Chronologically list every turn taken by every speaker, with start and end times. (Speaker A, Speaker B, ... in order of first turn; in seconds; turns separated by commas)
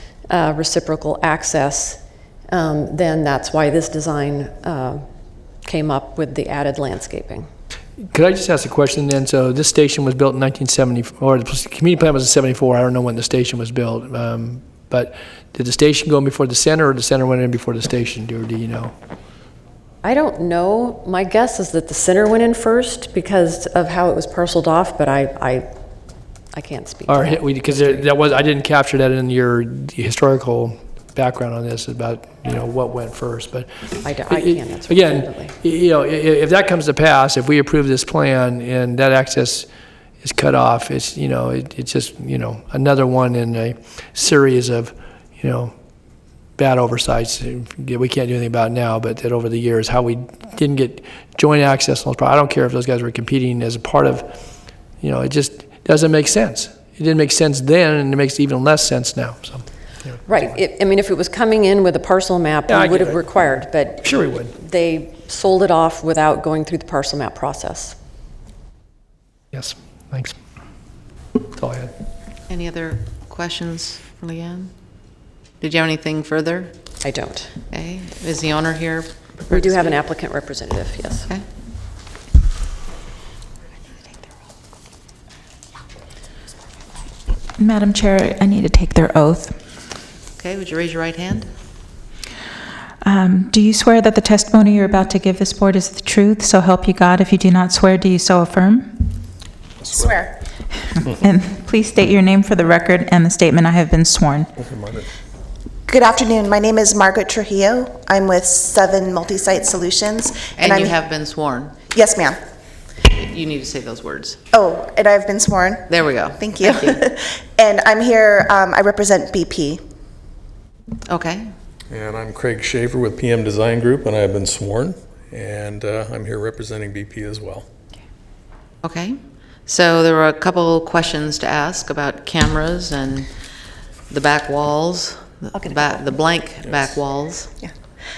Speaker A: 0.3-2.0, Speaker A: 2.5-5.0, Speaker A: 5.6-7.5, Speaker B: 8.0-18.9, Speaker A: 20.0-25.7, Speaker A: 26.5-28.0, Speaker B: 27.1-39.7, Speaker A: 34.0-35.6, Speaker B: 40.2-45.7, Speaker B: 46.6-54.3, Speaker B: 55.0-60.5, Speaker A: 60.3-68.0, Speaker B: 62.7-64.5, Speaker B: 69.5-70.4, Speaker B: 71.6-71.9, Speaker C: 72.5-74.7, Speaker C: 75.6-76.7, Speaker A: 77.0-77.5, Speaker C: 77.7-80.0, Speaker A: 79.5-81.3, Speaker D: 87.6-89.6, Speaker C: 90.4-91.5, Speaker D: 93.0-99.1, Speaker E: 99.8-100.1, Speaker F: 99.9-100.3, Speaker D: 101.1-104.5, Speaker E: 104.6-105.1, Speaker F: 105.9-111.0, Speaker C: 110.6-111.8, Speaker F: 111.9-112.4, Speaker C: 113.0-114.4, Speaker F: 114.5-119.8, Speaker C: 115.9-117.0, Speaker C: 121.1-121.5, Speaker E: 121.9-127.7, Speaker C: 128.8-133.3, Speaker C: 134.1-137.5, Speaker F: 135.7-136.0